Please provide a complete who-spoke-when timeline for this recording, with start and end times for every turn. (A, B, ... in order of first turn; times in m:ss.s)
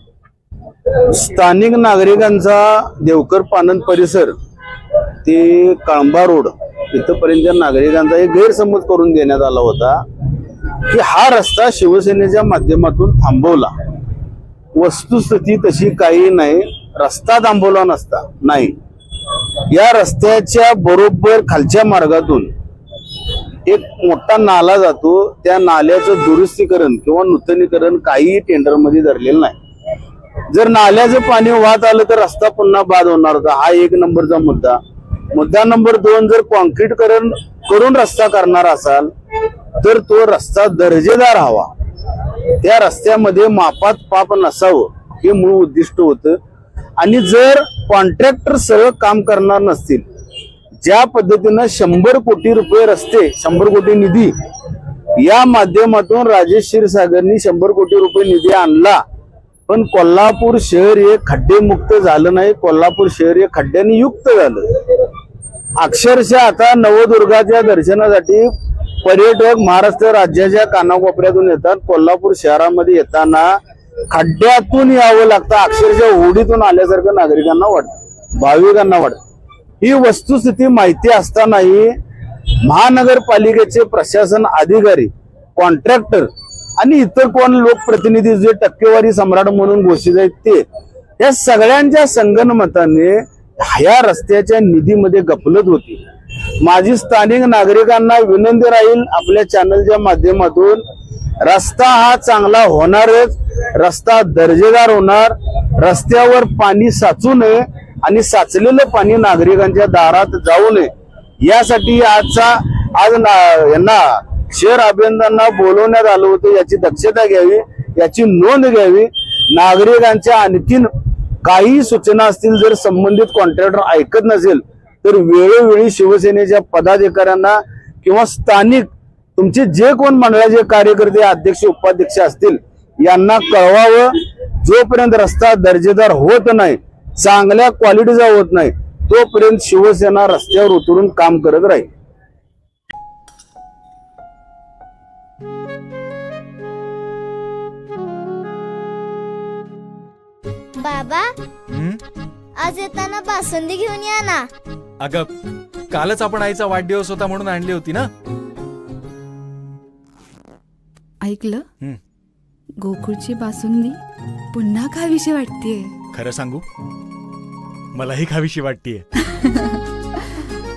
0:01.1-0:04.3 A
0:05.2-0:10.0 A
0:10.9-0:13.7 A
0:14.8-0:18.8 A
0:19.7-0:22.5 A
0:23.6-0:29.6 A
0:30.5-0:34.8 A
0:35.3-0:39.1 A
0:39.8-0:41.7 A
0:42.6-0:46.4 A
0:47.0-0:50.0 A
0:50.8-0:54.3 A
0:55.2-0:59.0 A
0:59.7-1:04.6 A
1:05.8-1:08.5 A
1:09.0-1:13.5 A
1:14.1-1:19.2 A
1:19.8-1:21.9 A
1:22.6-1:30.6 A
1:31.2-1:36.0 A
1:36.6-1:40.8 A
1:41.4-1:50.9 A
1:51.4-2:00.9 A
2:01.4-2:14.1 A
2:14.6-2:21.9 A
2:30.8-2:31.2 B
2:31.7-2:32.0 C
2:32.6-2:34.4 B
2:35.0-2:35.3 C
2:35.9-2:38.1 C
2:41.2-2:41.6 D
2:42.8-2:44.0 D
2:44.5-2:45.9 D
2:46.1-2:46.6 C
2:47.9-2:49.0 C